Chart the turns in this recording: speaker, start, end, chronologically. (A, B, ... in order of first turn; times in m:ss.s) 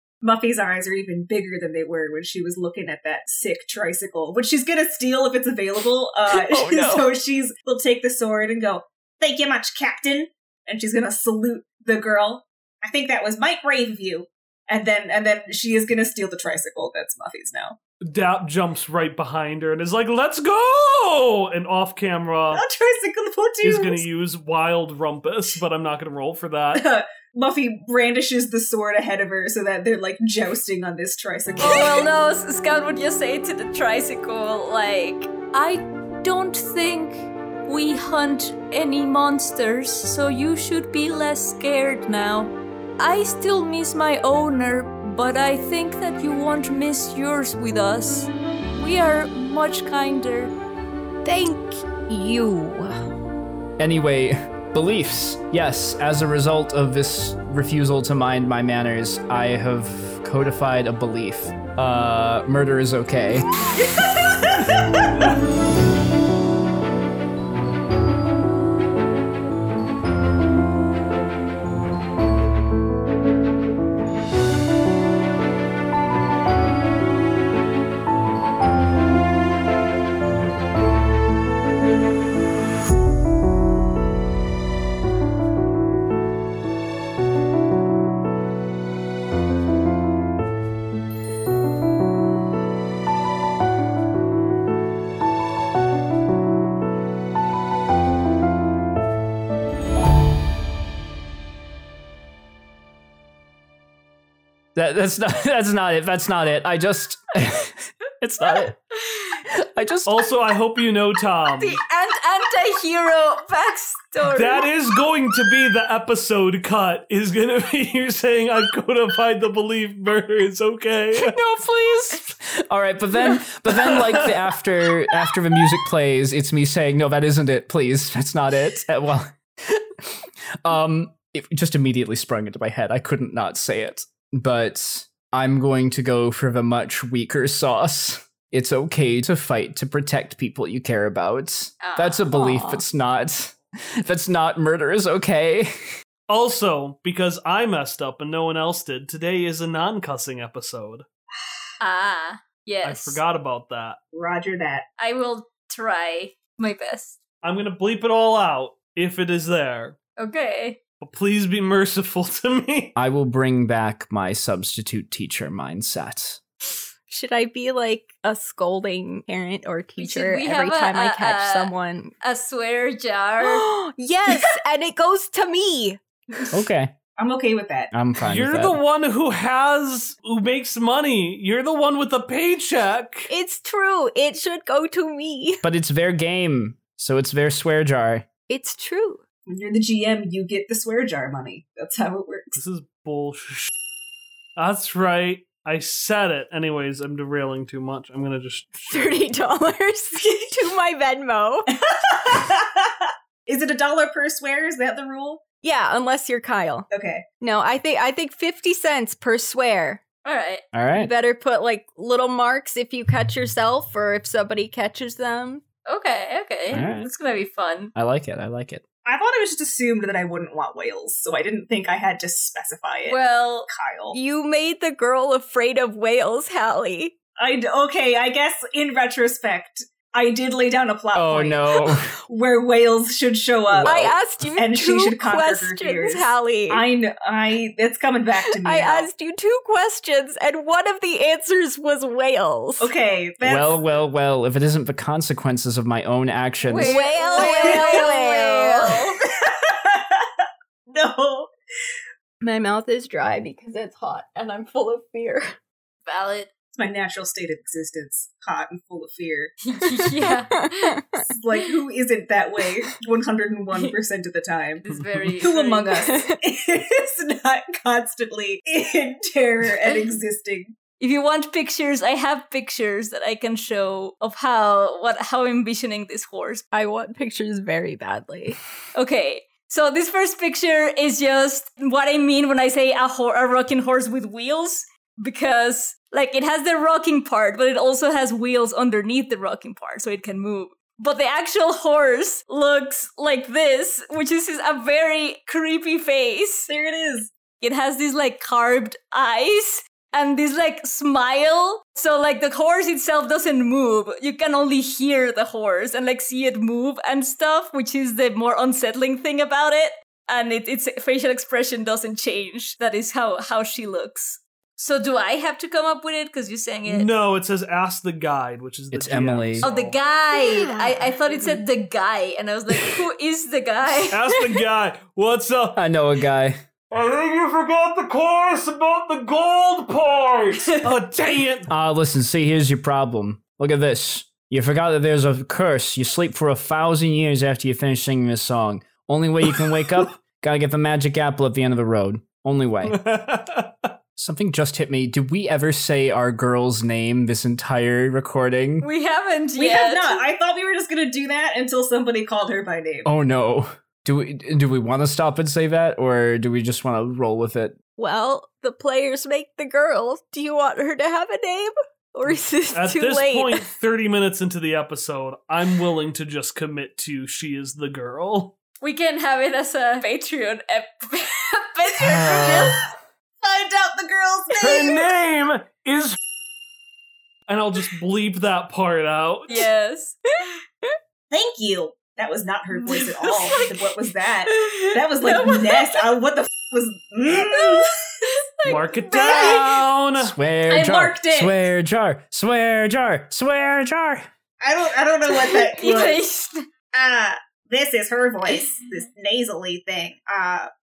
0:00.2-0:17.8 A
0:06.3-0:07.1 B
0:18.0-0:22.6 C
0:22.5-0:24.0 A
0:23.6-0:26.8 C
0:26.7-0:32.1 A
0:31.6-0:50.5 D
0:51.2-0:53.1 E
0:53.8-1:03.5 B
1:04.0-1:04.7 A
1:44.7-1:48.8 B
1:49.1-1:49.4 D
1:49.4-1:50.3 B
1:50.0-1:51.8 C
1:51.6-1:54.7 D
1:54.2-2:01.4 C
2:01.1-2:25.9 B
2:03.7-2:04.4 C
2:21.8-2:22.3 D
2:22.3-2:22.8 E
2:26.3-2:31.0 C
2:31.8-2:33.2 D
2:32.8-2:34.0 C
2:34.1-2:34.8 A
2:35.0-2:37.2 D
2:37.4-2:40.0 C
2:40.2-2:40.8 D
2:41.0-2:42.9 C
2:43.0-2:46.4 B
2:47.1-2:52.1 E
2:50.0-2:53.6 D
2:53.4-2:56.5 E
2:56.5-2:56.9 B
2:57.2-2:57.9 A
2:57.9-2:58.8 B
2:58.2-3:03.3 C
3:03.3-3:05.6 E
3:05.6-3:08.3 B
3:08.5-3:09.2 E
3:09.5-3:12.6 A
3:12.6-3:13.7 C
3:14.6-3:19.2 C
3:18.8-3:21.7 E
3:21.7-3:25.4 A
3:25.6-3:26.9 E
3:26.9-3:27.2 A
3:27.4-3:30.0 E
3:30.2-3:30.6 D
3:30.7-3:31.1 B
3:31.0-3:35.6 E
3:35.8-3:37.9 D
3:36.7-3:37.1 B
3:37.9-3:38.8 B
3:39.0-3:44.2 A
3:43.1-3:43.7 D
3:44.1-3:47.1 E
3:47.4-3:59.1 A
3:51.1-3:52.1 B
3:53.7-3:54.1 B
3:53.8-3:56.8 E
3:58.6-4:02.9 E
4:02.8-4:03.8 A
4:03.4-4:07.0 B
4:06.6-4:09.2 D
4:06.8-4:09.0 E
4:07.3-4:08.1 A
4:09.3-4:11.5 A
4:12.4-4:15.5 E
4:16.0-4:16.5 D
4:16.8-4:19.6 A
4:19.6-4:21.0 D
4:19.8-4:21.2 E
4:21.2-4:24.8 A
4:24.8-4:26.2 D
4:24.9-4:25.3 C
4:25.4-4:30.7 A
4:26.0-4:26.4 E
4:31.0-4:36.6 D
4:36.7-4:38.6 E
4:38.9-4:56.7 D
4:56.7-4:57.3 A
4:57.6-5:17.1 D
5:16.8-5:20.0 C
5:18.9-5:19.7 B
5:19.6-5:24.4 D
5:20.3-5:20.9 E
5:24.0-5:25.8 C
5:25.7-5:26.6 B
5:26.9-5:31.7 C
5:31.7-5:43.0 B
5:42.9-5:43.9 C
5:44.2-5:48.9 B
5:48.8-5:50.2 D
5:49.6-5:53.1 A
5:53.0-5:57.8 B
5:58.0-6:03.7 E
6:02.7-6:08.6 C
6:08.8-6:12.8 D
6:12.0-6:12.9 B
6:12.1-6:12.9 A
6:13.4-6:15.1 A
6:14.5-6:16.2 C
6:17.5-6:19.7 C
6:19.5-6:20.5 D
6:21.3-6:27.9 A
6:22.7-6:26.1 D
6:27.5-6:29.6 D
6:28.6-6:30.3 C
6:29.1-6:29.8 A
6:30.2-6:34.2 B
6:30.7-6:31.6 A
6:34.6-6:36.2 A
6:35.3-6:36.6 D
6:36.9-6:40.7 A
6:38.5-6:38.9 D